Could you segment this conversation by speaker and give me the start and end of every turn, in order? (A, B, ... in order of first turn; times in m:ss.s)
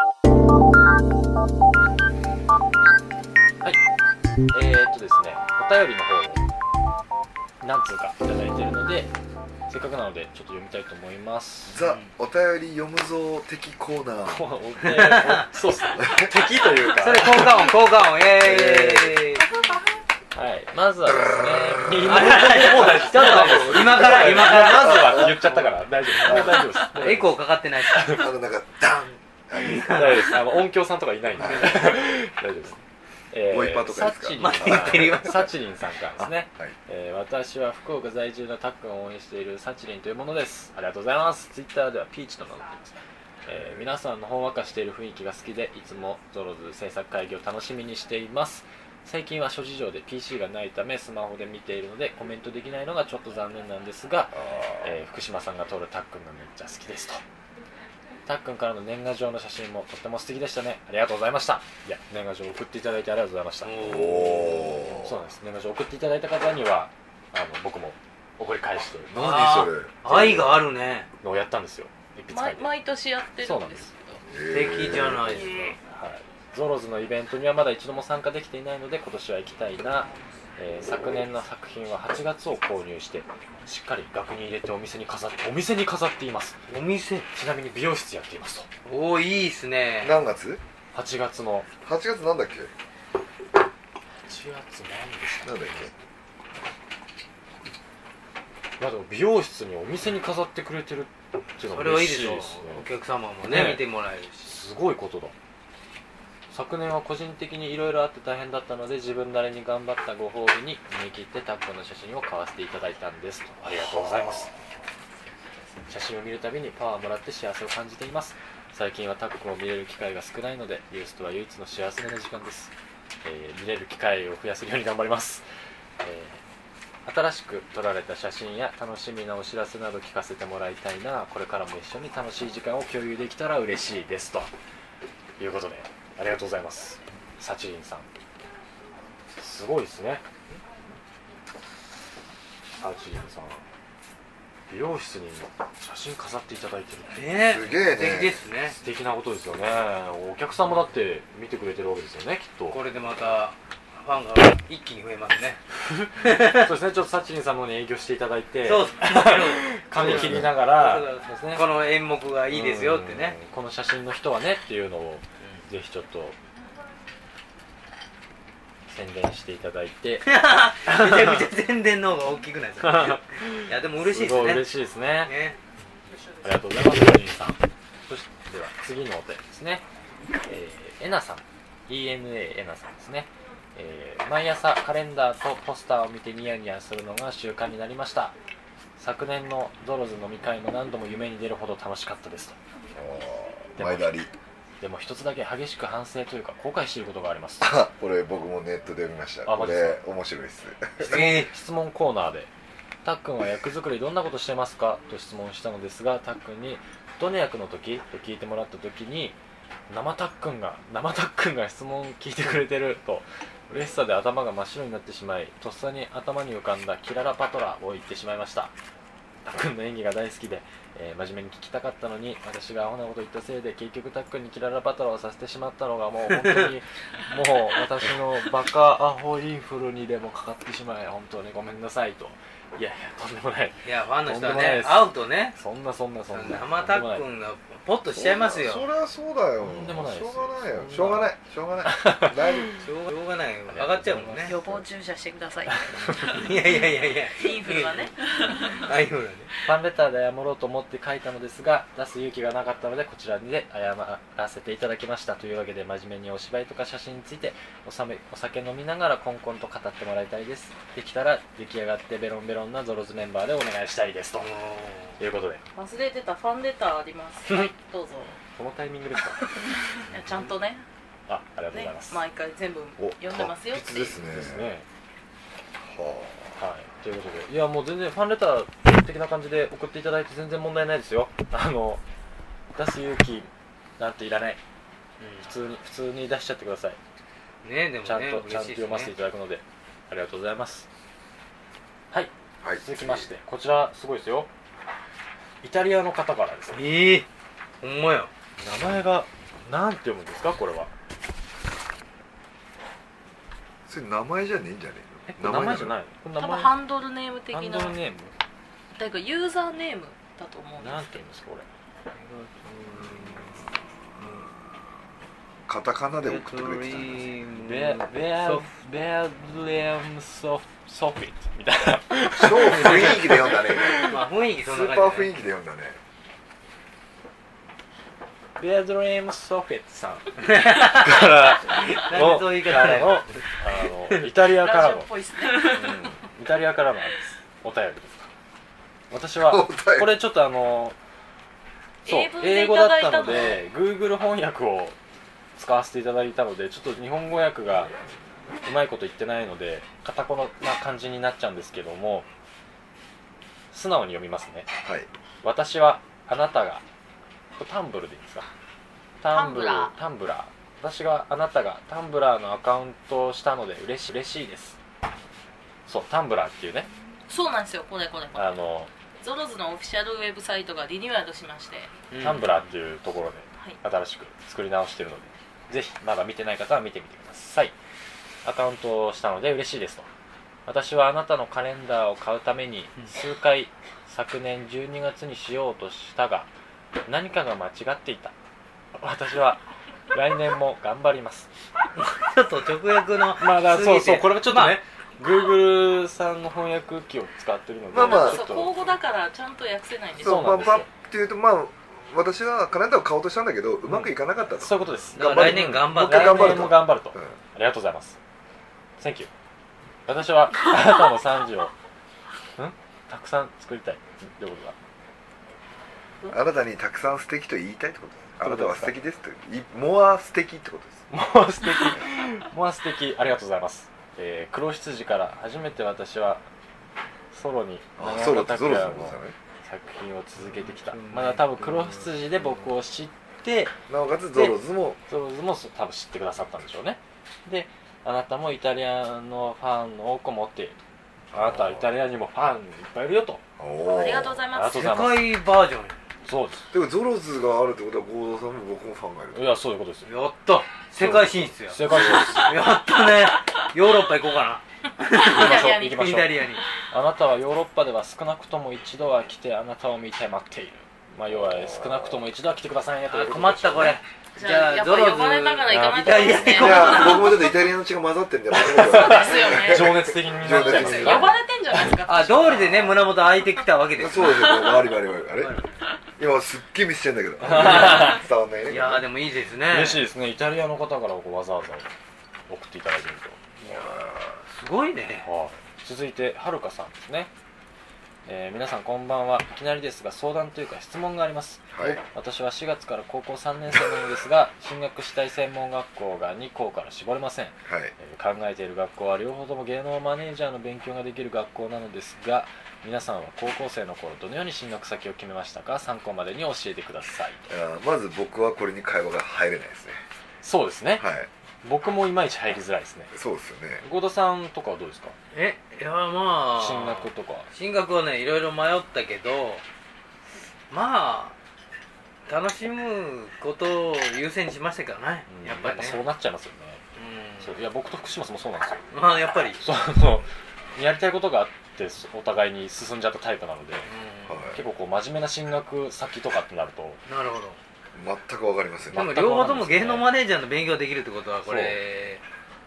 0:04.5-0:06.4 A
0:07.6-0:09.1 A
0:09.7-0:11.9 A
0:11.7-0:14.4 B
0:11.8-0:12.1 C
0:14.2-0:17.5 A
0:14.8-0:15.5 C
0:16.0-0:16.3 B
0:17.0-0:19.5 C
0:18.4-0:19.4 B
0:20.3-0:27.4 A
0:21.1-0:22.2 B
0:22.0-0:28.1 C
0:23.3-0:24.6 B
0:26.2-0:26.7 B
0:27.9-0:28.3 A
0:28.1-0:30.4 B
0:29.7-0:43.0 A
0:31.4-0:31.7 B
0:31.4-0:32.0 C
0:33.5-0:35.4 B
0:34.4-0:35.5 C
0:36.2-0:36.8 B
0:43.5-0:57.2 A
0:43.6-0:43.9 B
0:58.3-1:04.2 A
1:03.6-1:04.9 C
1:03.8-1:05.1 B
1:04.9-1:09.3 A
1:09.1-1:11.1 C
1:09.2-1:10.2 B
1:11.2-1:12.8 A
1:12.3-1:14.2 D
1:13.4-1:13.9 A
1:14.3-1:15.4 B
1:14.5-1:15.8 C
1:15.8-1:26.6 A
1:26.7-1:27.3 C
1:27.3-1:28.7 A
1:28.8-1:30.2 C
1:30.0-1:30.6 B
1:30.9-1:31.7 A
1:31.8-1:32.7 B
1:34.3-1:35.9 A
1:35.4-1:35.9 B
1:38.8-1:42.9 A
1:41.6-1:44.6 C
1:43.4-1:43.8 A
1:44.4-1:45.4 A
1:46.5-1:54.5 A
1:55.9-2:05.5 A
2:06.0-2:06.4 A
2:07.0-2:14.5 A
2:15.4-2:18.1 A
2:19.4-2:20.2 A
2:22.8-2:23.6 A
2:24.7-2:27.3 A
2:27.1-2:28.8 C
2:27.5-2:28.4 B
2:28.7-2:32.8 A
2:32.7-2:35.6 C
2:35.9-2:41.7 A
2:36.2-2:36.7 C
2:38.6-2:43.4 C
2:40.0-2:40.5 B
2:42.5-2:46.4 A
2:48.9-2:50.3 A
2:50.3-2:54.7 C
2:52.8-2:55.3 A
2:55.3-2:55.6 C
2:56.4-2:59.8 A
3:00.5-3:08.4 A
3:09.0-3:12.6 A
3:12.9-3:14.3 B
3:13.8-3:14.1 A
3:14.8-3:17.7 A
3:17.6-3:21.1 B
3:19.4-3:20.0 A
3:21.0-3:21.5 C
3:21.0-3:22.5 A
3:23.0-3:29.4 A
3:29.9-3:38.7 A
3:39.4-3:57.2 A
3:53.8-3:55.6 C
3:56.3-3:58.9 C
3:58.1-4:02.8 B
3:59.6-4:01.3 A
4:01.9-4:02.6 A
4:02.8-4:04.6 C
4:03.7-4:04.8 A
4:04.4-4:06.6 D
4:05.9-4:06.3 A
4:06.2-4:09.5 C
4:07.3-4:08.9 D
4:09.6-4:24.5 A
4:24.4-4:25.2 C
4:25.2-4:25.6 A
4:25.8-4:28.4 D
4:28.4-4:29.8 A
4:29.8-4:30.8 D
4:31.3-4:32.2 A
4:31.7-4:34.2 D
4:33.0-4:34.7 B
4:34.3-4:34.8 A
4:35.8-4:36.6 B
4:36.6-4:42.0 A
4:42.8-4:44.6 A
4:45.2-4:45.5 C
4:45.4-4:47.0 A
4:47.6-4:49.1 C
4:48.0-4:50.9 A
4:52.1-4:54.5 A
4:52.6-4:53.3 B
4:55.6-4:57.0 A
4:56.8-4:57.3 C
4:57.8-4:58.3 C
4:58.6-5:00.9 A
5:03.9-5:06.0 B
5:05.3-5:06.8 A
5:06.4-5:08.0 D
5:07.5-5:08.4 A
5:09.0-5:11.2 D
5:10.8-5:11.6 A
5:12.1-5:14.5 C
5:15.7-5:17.3 B
5:16.2-5:18.9 C
5:17.5-5:24.2 A
5:22.4-5:24.0 B
5:22.6-5:25.3 C
5:24.6-5:26.0 B
5:28.6-5:38.3 A
5:30.4-5:33.4 C
5:34.5-5:36.0 D
5:39.1-5:41.0 A
5:39.5-5:40.1 B
5:42.0-5:43.6 D
5:42.0-5:45.0 A
5:45.6-5:47.9 A
5:48.6-5:52.3 A
5:53.7-5:54.7 A
5:54.8-5:55.1 B
5:55.4-5:56.8 A
5:57.6-5:58.5 A
5:59.2-6:04.8 A
5:59.3-6:00.0 D
6:05.9-6:06.9 A
6:07.3-6:08.5 D
6:08.4-6:08.9 A
6:09.2-6:12.0 D
6:12.1-6:12.6 C
6:12.2-6:17.7 A
6:18.4-6:20.1 A
6:20.7-6:26.5 A
6:27.0-6:28.3 A
6:29.0-6:31.5 A
6:32.0-6:34.8 C
6:33.4-6:38.8 A
6:37.9-6:38.7 B
6:38.0-6:40.8 D
6:40.2-6:47.3 B
6:40.2-6:40.9 A
6:43.9-6:48.2 A
6:45.2-6:46.7 C
6:49.0-6:49.3 A
6:50.1-6:51.7 A
6:52.6-6:54.8 A
6:56.3-7:01.1 B
6:58.4-6:58.9 A
7:01.1-7:06.5 A
7:07.3-7:13.7 A
7:08.0-7:09.4 B
7:10.7-7:12.1 C
7:13.9-7:15.0 B
7:14.3-7:20.8 A
7:21.3-7:21.9 B
7:21.3-7:23.4 A
7:23.6-7:24.4 B
7:23.8-7:24.9 D
7:24.5-7:25.4 A
7:24.7-7:26.0 C
7:26.2-7:26.7 A
7:26.7-7:29.4 B
7:29.3-7:30.2 A
7:30.1-7:31.8 C
7:31.0-7:32.6 A
7:31.8-7:32.4 B
7:32.3-7:36.6 C
7:35.1-7:36.0 D
7:35.2-7:36.3 A
7:36.9-7:44.0 A
7:43.1-7:47.3 C
7:44.4-7:47.6 D
7:45.7-7:47.3 A
7:46.5-7:51.4 B
7:48.6-7:50.1 D
7:48.9-7:51.4 A
7:50.5-7:51.3 C
7:50.9-7:52.4 D
7:52.0-7:55.9 C
7:54.0-7:55.6 B
7:56.2-7:59.1 B
7:57.5-7:58.2 A
7:57.5-7:58.1 C
7:58.6-8:00.1 C
7:59.7-8:01.9 A
8:02.5-8:04.0 A
8:03.6-8:04.4 B
8:04.5-8:05.3 C
8:05.2-8:07.3 A
8:08.2-8:27.5 A
8:11.7-8:12.0 B
8:17.7-8:17.9 B
8:27.5-8:30.0 B
8:30.4-8:31.1 A
8:31.0-8:31.3 B
8:31.6-8:33.1 A
8:33.1-8:33.8 B
8:33.8-8:35.2 A
8:35.3-8:39.6 C
8:36.6-8:37.5 A
8:40.7-8:41.4 C
8:42.3-8:46.0 C
8:45.3-8:46.8 A
8:47.0-8:47.5 C
8:47.4-8:48.8 A
8:48.9-8:49.6 C
8:49.6-8:53.9 A
8:53.9-8:54.6 C
8:54.3-8:54.6 B
8:54.5-8:57.0 A
8:57.1-8:57.6 C
8:57.9-8:59.0 B
8:58.9-9:00.1 A
8:58.9-9:02.2 C
9:01.4-9:01.8 A